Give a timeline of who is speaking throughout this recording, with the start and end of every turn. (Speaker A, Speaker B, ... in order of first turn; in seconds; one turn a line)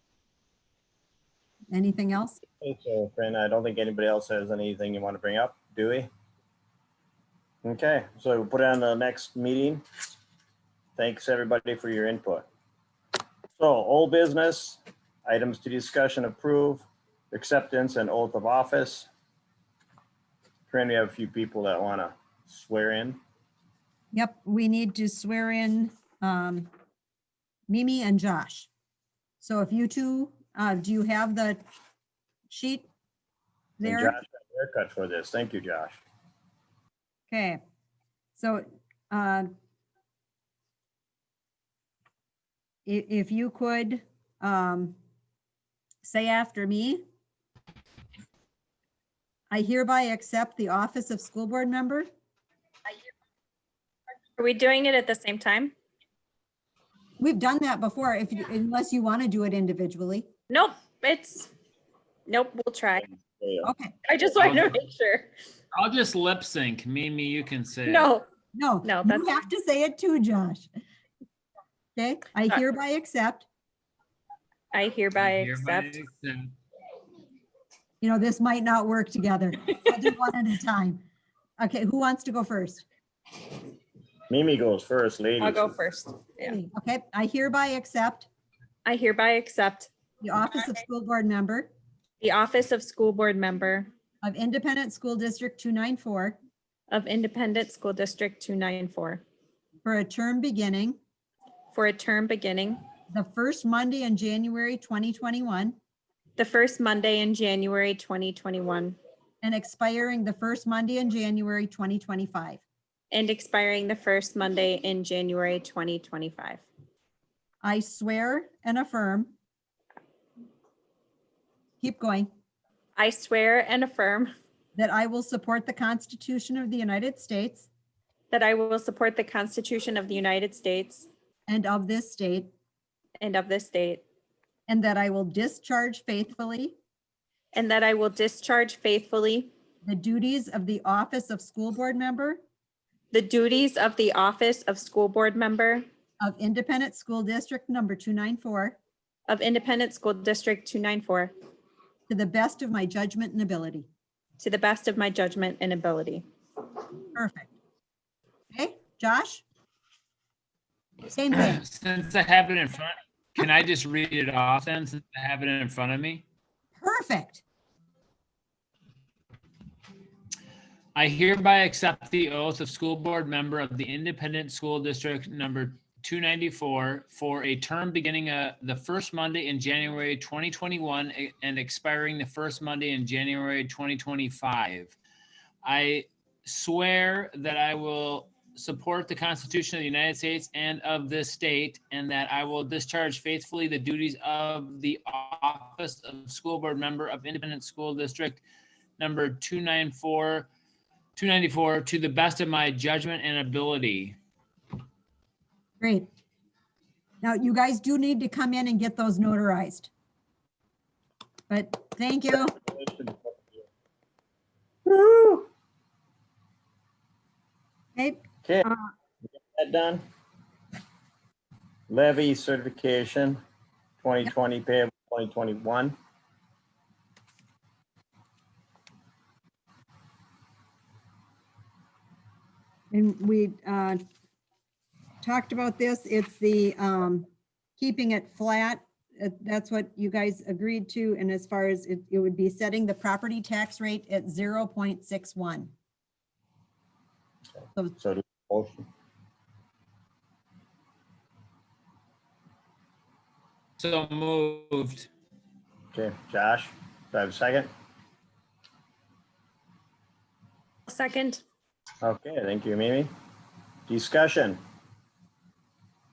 Speaker A: 1.7-2.4
Speaker B: 2.6-6.1
Speaker B: 7.6-9.8
Speaker B: 11.0-12.5
Speaker B: 13.6-19.1
Speaker B: 20.7-23.2
Speaker A: 24.1-26.7
Speaker A: 27.7-28.7
Speaker A: 29.4-31.6
Speaker A: 32.5-32.9
Speaker A: 33.8-34.1
Speaker B: 33.8-36.0
Speaker A: 37.3-37.6
Speaker A: 38.4-39.5
Speaker A: 42.9-45.0
Speaker A: 46.0-47.0
Speaker A: 49.5-52.1
Speaker C: 54.4-55.7
Speaker A: 57.2-60.3
Speaker C: 60.5-61.5
Speaker C: 62.3-63.1
Speaker B: 63.3-63.6
Speaker A: 63.6-64.0
Speaker C: 64.0-65.3
Speaker D: 64.4-64.8
Speaker D: 65.7-68.1
Speaker C: 67.9-68.3
Speaker A: 68.5-70.7
Speaker C: 68.8-69.5
Speaker A: 72.0-73.5
Speaker C: 74.7-76.0
Speaker D: 75.2-76.5
Speaker A: 78.0-81.0
Speaker A: 81.6-82.9
Speaker B: 84.3-85.7
Speaker C: 85.4-86.5
Speaker A: 86.5-88.3
Speaker C: 88.8-89.9
Speaker A: 90.2-91.7
Speaker C: 92.2-93.9
Speaker A: 94.2-96.4
Speaker C: 96.9-99.2
Speaker A: 99.8-101.0
Speaker C: 101.7-102.8
Speaker A: 103.1-105.8
Speaker C: 106.4-109.0
Speaker A: 109.4-112.6
Speaker C: 113.1-116.7
Speaker A: 117.6-119.3
Speaker A: 121.8-122.3
Speaker C: 123.0-124.3
Speaker A: 124.8-127.7
Speaker C: 128.3-131.1
Speaker A: 131.5-132.5
Speaker C: 133.2-134.1
Speaker A: 134.7-136.8
Speaker C: 137.5-139.5
Speaker A: 139.8-142.4
Speaker C: 143.1-145.8
Speaker A: 146.2-148.8
Speaker C: 149.3-151.3
Speaker A: 152.1-153.9
Speaker C: 154.4-156.2
Speaker A: 157.1-157.5
Speaker A: 158.5-159.4
Speaker A: 161.1-161.6
Speaker D: 161.3-166.2
Speaker A: 166.8-167.4
Speaker D: 170.9-184.9
Speaker D: 185.6-198.4
Speaker D: 199.0-200.5
Speaker D: 201.2-204.2
Speaker A: 205.8-206.1
Speaker A: 207.2-209.9
Speaker A: 211.5-212.6
Speaker B: 212.6-213.6
Speaker B: 214.9-215.4
Speaker A: 218.0-218.8
Speaker B: 218.4-218.7
Speaker B: 219.4-220.0
Speaker B: 221.9-223.4
Speaker B: 224.0-226.0
Speaker A: 232.9-234.0
Speaker A: 235.2-245.7
Speaker B: 248.0-248.9
Speaker D: 253.8-255.1
Speaker B: 255.9-257.7
Speaker C: 260.9-261.4
Speaker B: 262.0-263.1
Speaker B: 263.9-264.6